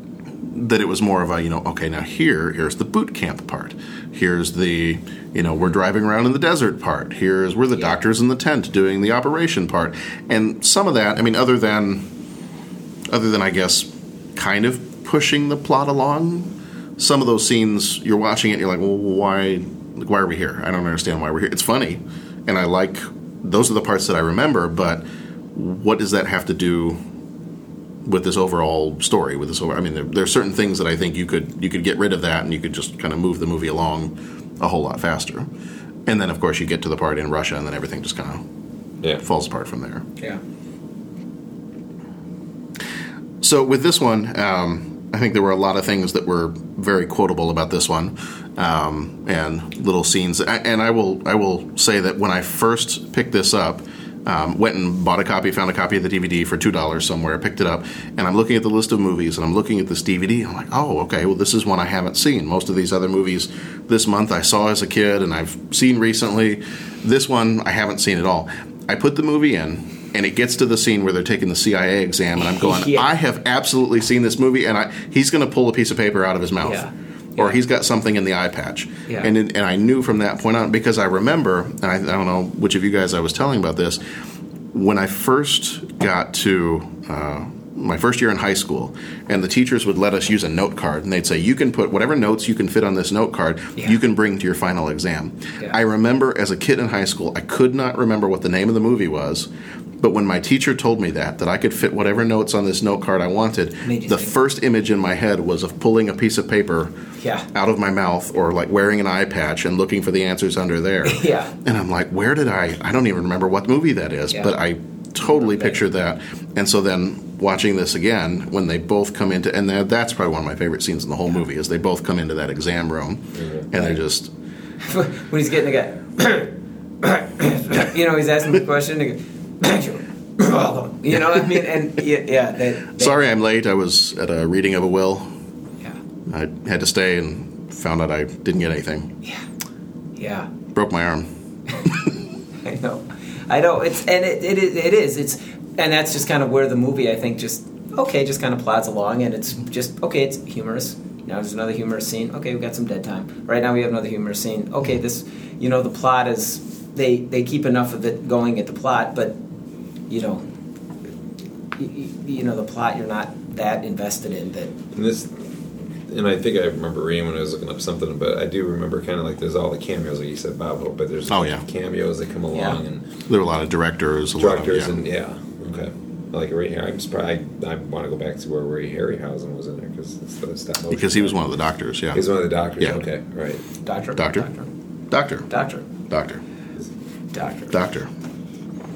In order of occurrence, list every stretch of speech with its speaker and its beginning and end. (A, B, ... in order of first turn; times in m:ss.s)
0:00.4-0:12.1 A
0:13.1-0:27.0 A
0:28.0-0:35.5 A
0:36.0-0:38.4 A
0:39.2-0:40.0 A
0:43.4-1:24.0 A
1:12.5-1:13.1 B
1:16.6-1:17.6 B
1:24.7-1:39.5 A
1:40.0-1:46.9 A
1:43.8-1:44.3 B
1:47.2-1:47.4 B
1:47.5-2:04.3 A
1:51.0-1:51.5 B
1:55.2-1:55.8 B
2:03.4-2:03.6 C
2:04.8-2:13.2 B
2:13.0-2:15.3 A
2:16.3-2:19.1 A
2:20.2-2:20.5 B
2:20.7-2:21.3 A
2:22.6-2:39.4 B
2:40.1-2:40.5 B
2:41.8-2:44.7 B
2:44.9-2:45.5 C
2:46.1-2:53.0 C
2:51.3-2:51.6 A
2:52.5-2:52.8 B
2:53.3-2:55.0 A
2:54.4-3:01.5 C
3:00.9-3:02.2 A
3:02.1-3:03.6 C
3:02.8-3:03.0 A
3:03.8-3:04.7 B
3:04.2-3:04.5 A
3:05.1-3:05.5 A
3:05.5-3:05.8 B
3:06.1-3:06.4 A
3:07.3-3:07.7 B
3:07.7-3:08.1 A